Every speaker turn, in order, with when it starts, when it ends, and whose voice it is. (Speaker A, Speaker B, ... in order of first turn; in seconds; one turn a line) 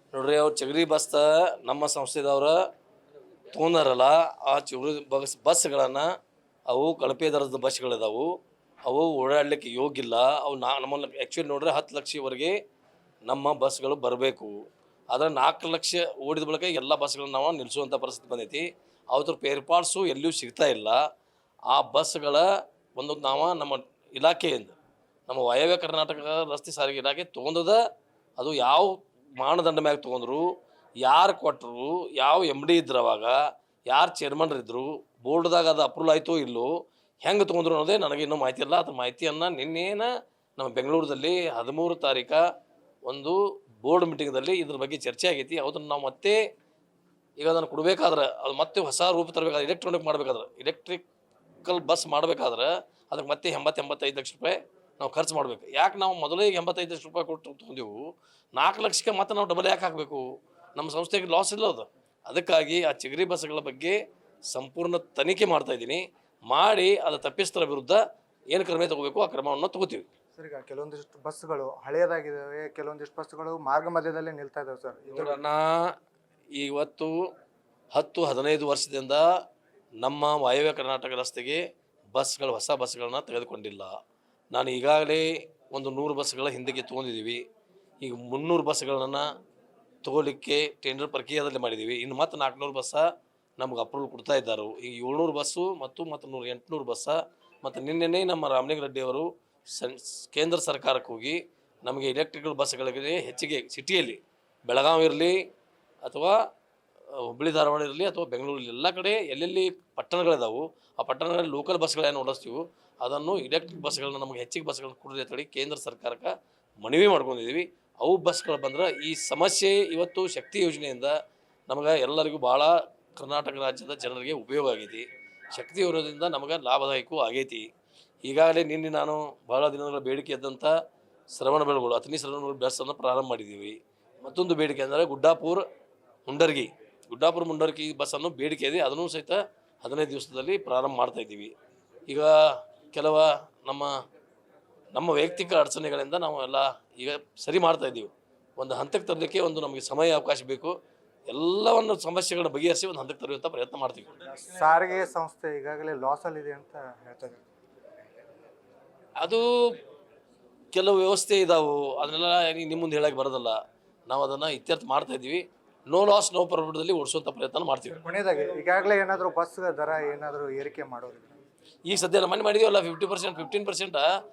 Speaker A: 0.1-2.6
Speaker A: 3.5-6.1
Speaker A: 6.7-8.3
Speaker A: 8.9-12.6
Speaker A: 13.3-14.6
Speaker A: 15.1-21.0
Speaker A: 21.7-22.4
Speaker A: 23.0-24.7
Speaker A: 25.3-27.8
Speaker A: 28.4-30.5
Speaker A: 31.0-33.3
Speaker A: 33.9-36.7
Speaker A: 37.2-42.4
Speaker A: 43.1-46.4
Speaker A: 47.4-51.0
Speaker A: 51.6-58.0
Speaker A: 58.6-60.2
Speaker A: 60.8-64.0
Speaker A: 64.5-68.0
Speaker A: 68.5-70.1
Speaker B: 70.3-75.4
Speaker A: 75.1-75.9
Speaker A: 76.5-77.1
Speaker A: 77.9-79.2
Speaker A: 80.0-81.6
Speaker A: 82.1-83.9
Speaker A: 84.5-87.4
Speaker A: 88.0-89.3
Speaker A: 90.0-93.0
Speaker A: 93.6-105.4
Speaker A: 106.0-106.4
Speaker A: 107.2-121.1
Speaker A: 121.7-127.7
Speaker A: 128.2-130.7
Speaker A: 131.3-135.6
Speaker A: 136.3-141.5
Speaker A: 142.9-143.9
Speaker A: 144.9-150.7
Speaker A: 151.3-154.2
Speaker B: 154.3-157.4
Speaker A: 159.2-159.5
Speaker A: 160.7-163.6
Speaker A: 164.1-168.0
Speaker B: 167.9-171.3
Speaker A: 171.9-174.1